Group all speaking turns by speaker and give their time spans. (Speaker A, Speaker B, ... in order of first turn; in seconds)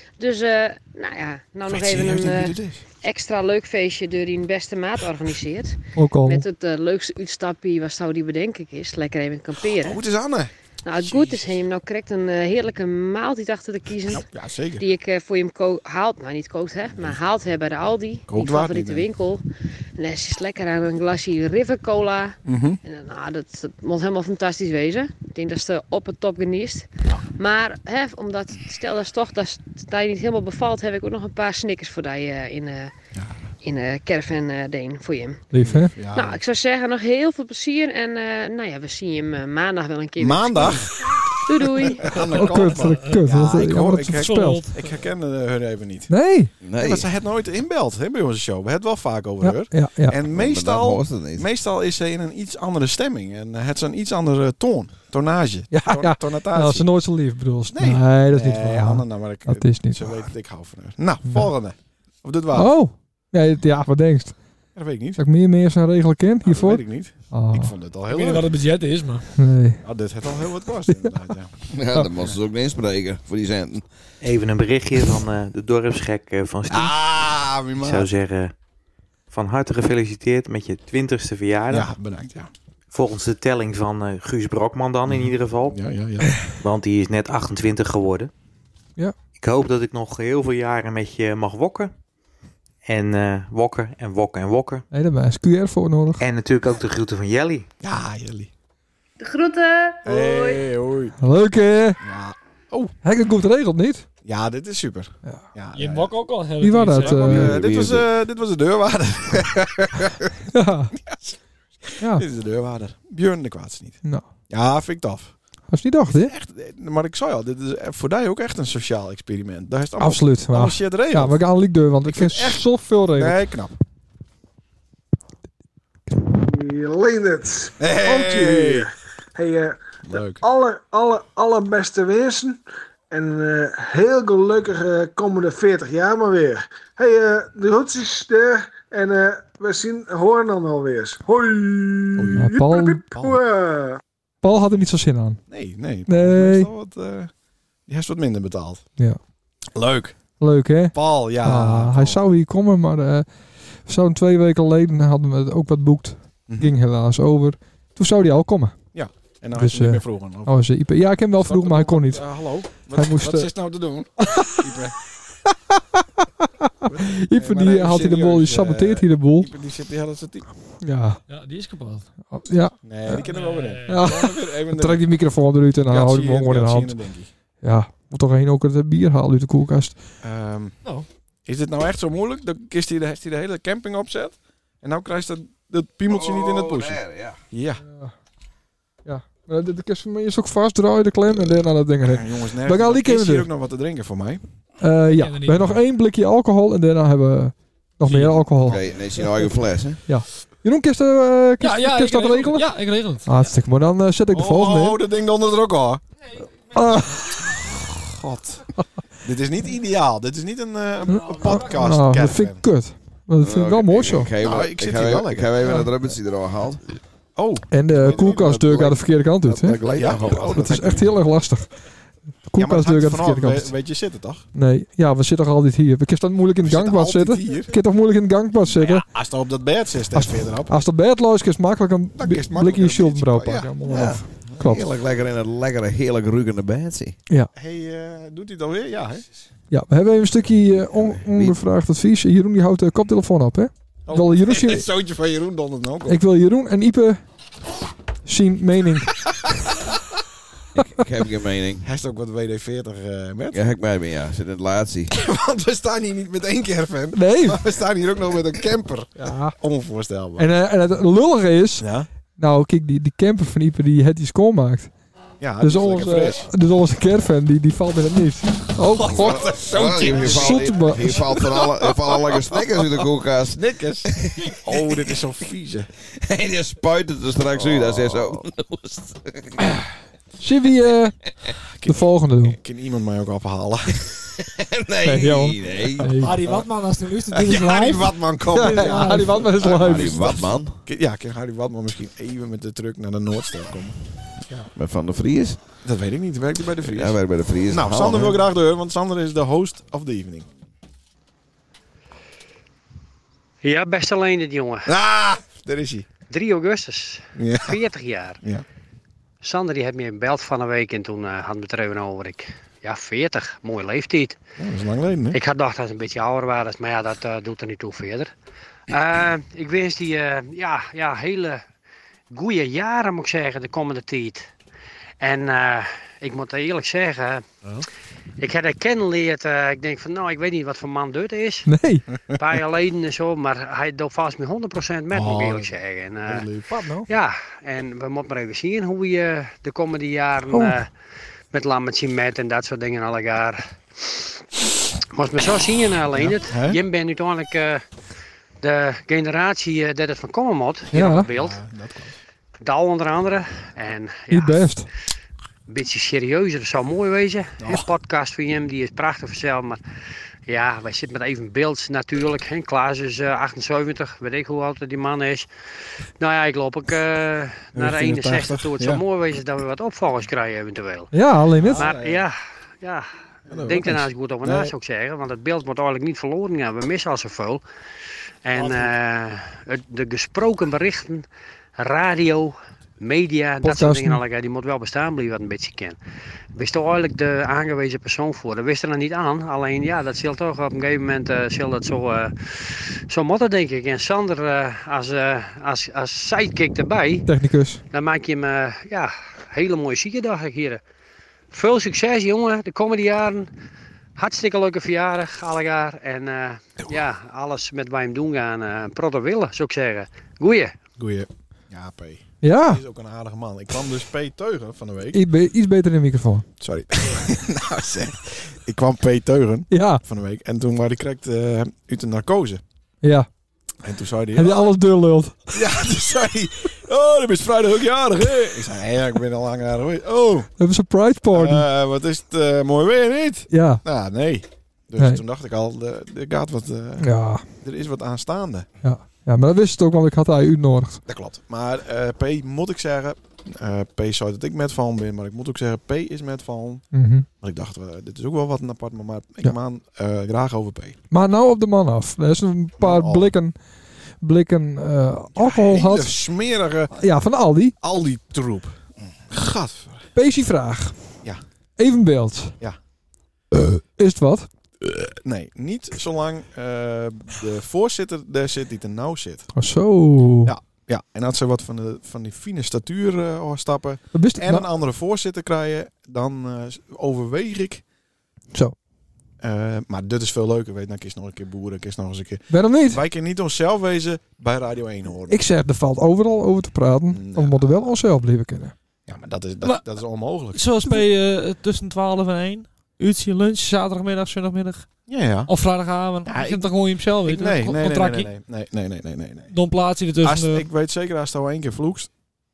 Speaker A: 0.2-10.0, 10.8-14.2, 14.8-19.4, 20.0-32.9, 33.6-35.5, 36.1-42.1
Speaker B: 1.7-2.8, 9.8-11.6, 14.1-14.8, 18.3-19.1, 22.5-22.8, 35.6-36.4, 40.2-46.2, 46.8-56.9, 57.7-62.8, 64.8-65.2, 66.5-68.5, 69.8-71.5, 76.7-78.1, 81.7-82.5, 85.1-86.5, 97.8-98.5, 100.0-101.2, 102.0-102.9, 104.2-106.1, 107.0-110.3, 111.0-111.4, 112.0-115.3, 116.1-121.4, 122.1-123.8, 127.8-128.9, 130.1-130.4, 142.2-142.6, 145.5-147.3, 147.9-148.8, 149.8-150.2, 150.9-152.2, 156.5-156.7, 158.9-160.7, 161.4-165.0, 166.9-170.5, 172.8-175.1, 175.9-177.3, 180.2-180.8, 181.5-187.8, 192.0-194.4, 204.3-206.0, 207.6-208.7, 209.2-212.7, 214.4-215.6, 217.4-219.0, 219.9-221.1, 222.6-224.5, 226.6-227.8, 228.7-230.7, 232.2-234.1, 237.6-239.2, 244.1-246.2, 251.8-253.7, 255.1-260.5, 261.8-262.1, 265.4-266.5, 268.9-272.6, 273.5-275.9, 277.5-278.4, 281.8-284.1, 286.4-286.7, 287.4-294.0, 295.8-300.5, 304.9-306.1, 307.4-307.8, 314.6-315.4, 335.1-337.1, 346.1-346.8, 351.2-352.2, 357.6-357.9, 367.7-369.0, 371.6-372.3, 373.5-374.7, 411.0-415.2, 416.6-422.6, 423.8-424.7, 425.5-430.5, 431.3-438.7, 441.1-451.0, 452.8-453.3, 455.4-457.0, 457.8-460.1, 465.2-469.6, 470.4-477.8, 479.4-485.4, 487.1-487.8, 489.1-490.6, 495.1-499.5, 500.2-502.1
Speaker C: 6.0-6.5, 35.5-35.9, 42.3-44.7, 46.1-46.5, 49.4-50.2, 55.7-60.3, 61.2-61.5, 62.5-64.4, 65.2-67.7, 69.4-69.8, 94.9-96.2, 101.2-102.0, 103.0-104.1, 106.6-107.6, 110.5-110.9, 115.7-116.3, 120.0-123.4, 142.4-143.1, 144.4-145.4, 146.1-146.7, 150.4-158.9, 159.6-163.5, 164.3-164.6, 166.8-169.5, 170.8-171.2, 172.3-173.2, 173.8-176.9, 177.6-180.0, 187.8-188.2, 189.1-193.5, 194.8-199.5, 200.1-205.0, 206.7-207.3, 211.1-214.3, 215.6-215.9, 217.7-221.8, 222.5-223.7, 224.5-229.1, 230.1-234.9, 239.7-244.9, 246.1-247.2, 248.3-249.1, 257.1-257.6, 259.2-259.6, 260.4-261.9, 262.4-264.9, 265.6-271.3, 280.4-281.1, 281.9-282.6, 285.0-286.4, 288.5-290.4, 331.6-332.1, 340.5-340.8, 350.9-351.3, 354.3-354.9, 371.1-371.9, 383.6-384.2, 397.2-397.8, 412.4-412.8, 415.1-416.5, 419.7-420.0, 423.0-423.3, 424.4-425.6, 430.6-431.7, 433.5-433.8, 435.0-435.2, 437.0-437.4, 438.8-441.0, 446.9-447.3, 451.1-453.6, 454.2-456.2, 456.9-457.8, 460.1-461.2, 461.8-462.6, 464.0-464.5, 469.5-470.5, 474.1-474.7, 482.5-483.0, 485.3-488.7
Speaker D: 42.6-43.2, 44.2-45.0, 68.1-69.3, 105.7-107.6, 171.3-172.1, 173.2-174.1, 195.1-195.8, 198.1-198.4, 201.6-203.5, 286.1-289.5, 490.5-495.0, 495.5-498.3, 499.5-500.7
Speaker E: 46.6-47.1, 50.3-51.5, 71.7-73.8, 107.3-108.0, 186.1-187.4, 198.6-200.0, 213.4-217.0, 219.4-220.7, 233.8-237.2, 241.2-241.6, 250.8-251.9, 253.5-255.1, 269.1-274.8, 276.2-279.6, 284.5-286.2, 289.6-290.8, 294.7-295.6, 296.8-298.4
Speaker F: 74.2-78.5, 79.3-81.9, 82.9-85.8, 86.4-88.3, 89.4-91.9, 92.8-94.8, 96.2-97.7
Speaker G: 126.3-144.0
Speaker H: 303.6-304.9, 306.3-308.4, 309.4-314.4, 315.3-318.3, 318.9-321.6, 322.3-324.5, 325.2-327.4, 328.4-331.7, 332.4-336.5, 337.1-340.9, 341.5-344.2, 345.1-347.8, 348.6-351.6, 352.6-354.6, 355.7-359.8, 360.5-365.5, 366.2-371.1, 371.8-377.6, 378.4-381.3, 381.8-386.0, 386.5-397.3, 397.9-400.8, 401.5-403.5, 404.2-410.8